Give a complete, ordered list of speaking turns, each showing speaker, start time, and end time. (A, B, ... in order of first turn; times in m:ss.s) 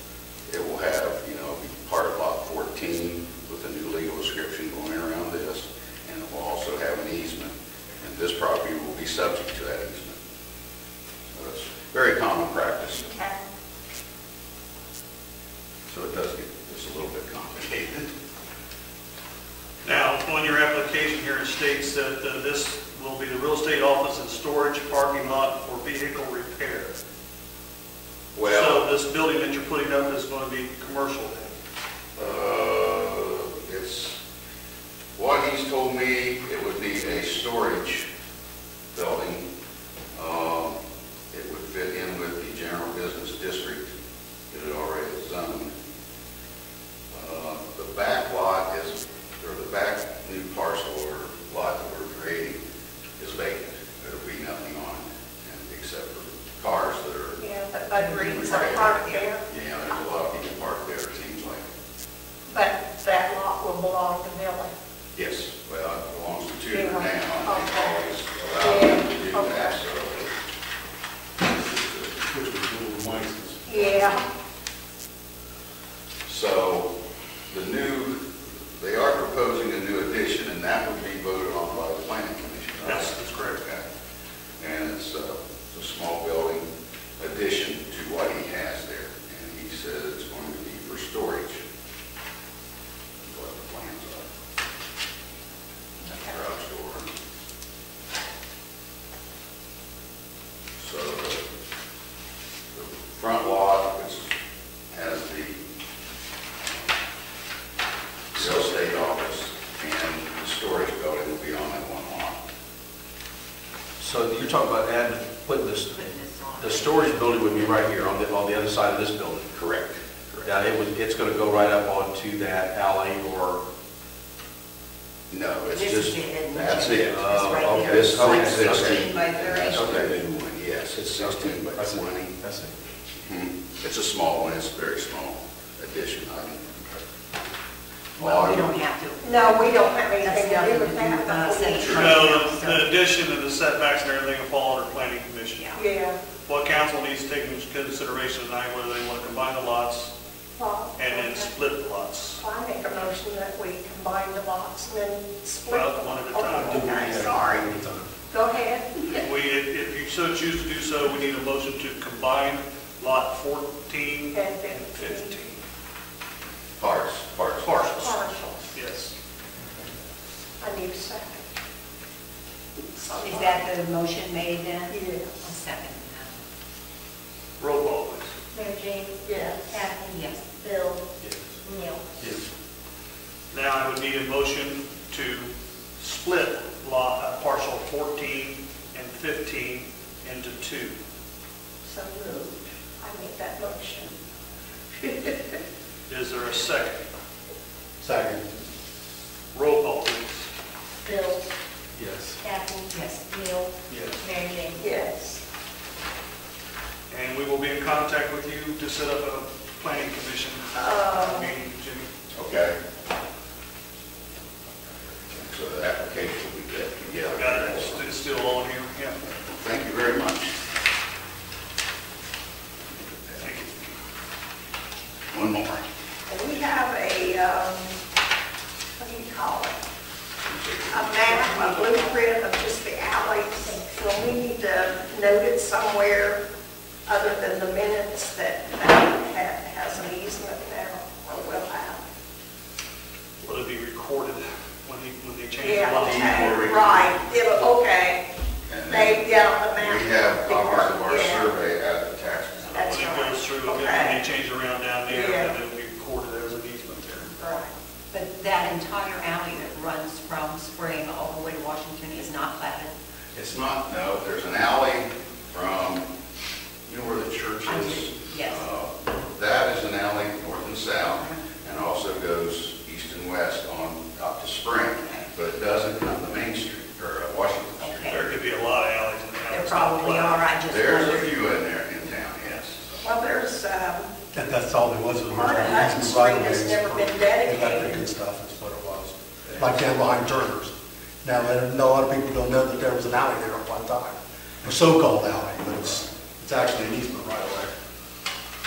0:00.5-0:10.2 A
0:11.3-0:13.0 A
0:13.0-0:13.4 B
0:15.9-0:18.1 A
0:19.8-0:26.9 C
0:28.3-0:28.8 A
0:28.4-0:31.5 C
0:32.2-0:34.2 A
0:35.2-0:38.1 A
0:38.9-0:39.4 A
0:40.1-0:40.8 A
0:41.3-0:43.9 A
0:44.5-0:45.7 A
0:47.1-0:52.6 A
0:53.2-0:57.4 A
0:57.4-0:59.4 B
0:58.0-0:59.1 D
0:58.3-1:01.6 A
1:02.5-1:04.7 B
1:05.1-1:10.3 A
1:06.7-1:08.0 B
1:08.6-1:09.8 B
1:11.5-1:12.3 A
1:12.3-1:13.8 E
1:13.0-1:13.5 A
1:13.7-1:14.2 B
1:16.2-1:16.9 A
1:17.5-1:23.8 A
1:22.8-1:23.6 C
1:24.6-1:31.6 A
1:33.2-1:34.3 A
1:36.1-1:37.1 A
1:40.8-1:41.4 A
1:42.7-1:44.3 A
1:44.9-1:45.6 A
1:48.3-1:52.4 A
1:54.0-1:59.5 F
1:55.9-1:57.1 D
1:59.5-2:00.6 A
2:00.4-2:03.6 F
2:05.3-2:12.4 A
2:05.7-2:10.1 D
2:06.9-2:10.2 F
2:11.0-2:12.7 F
2:13.2-2:17.0 A
2:18.2-2:18.7 A
2:18.2-2:22.9 D
2:19.2-2:22.4 B
2:21.8-2:25.7 C
2:25.5-2:25.8 D
2:25.7-2:26.2 B
2:26.5-2:30.1 C
2:30.6-2:31.5 B
2:31.0-2:32.4 C
2:32.4-2:37.7 B
2:35.7-2:37.2 C
2:36.5-2:38.1 E
2:38.3-2:39.2 B
2:39.1-2:45.6 C
2:44.3-2:45.4 B
2:46.8-2:47.7 A
2:47.6-2:49.1 C
2:47.9-2:48.7 B
2:50.6-2:51.4 B
2:52.9-2:53.7 B
2:53.2-2:56.4 D
2:54.9-2:55.4 B
2:57.6-2:58.3 C
2:58.5-3:01.0 G
2:59.2-2:59.8 B
3:00.1-3:00.4 D
3:01.6-3:02.0 G
3:03.5-3:10.9 C
3:11.8-3:14.1 B
3:14.9-3:15.6 B
3:16.1-3:17.0 C
3:18.0-3:18.6 E
3:19.5-3:20.4 C
3:21.0-3:21.5 G
3:22.4-3:24.8 G
3:22.9-3:23.2 D
3:24.8-3:25.4 B
3:27.1-3:32.1 C
3:30.7-3:31.5 B
3:32.3-3:32.8 A
3:35.3-3:38.1 A
3:37.4-3:39.2 C
3:39.4-3:40.5 A
3:43.1-3:43.5 A
3:43.4-3:43.7 C
3:45.3-3:45.8 A
3:46.3-3:48.0 B
3:49.0-3:49.8 B
3:50.4-3:51.2 A
3:50.9-3:56.4 B
3:51.3-3:52.2 D
3:57.0-4:02.0 B
4:03.4-4:06.6 C
4:05.6-4:08.2 B
4:06.2-4:07.1 F
4:06.3-4:06.7 A
4:08.7-4:12.9 A
4:08.9-4:11.5 B
4:12.6-4:17.3 C
4:12.7-4:14.2 B
4:13.0-4:13.3 D
4:15.1-4:15.5 B
4:17.4-4:22.9 D
4:23.3-4:26.0 A
4:26.8-4:38.3 A
4:27.6-4:28.7 D
4:35.0-4:35.3 D
4:37.8-4:38.2 D
4:38.1-4:40.5 C
4:39.5-4:41.3 D
4:40.7-4:43.0 A
4:43.0-4:44.1 B
4:44.3-4:57.7 E
4:45.3-4:48.1 B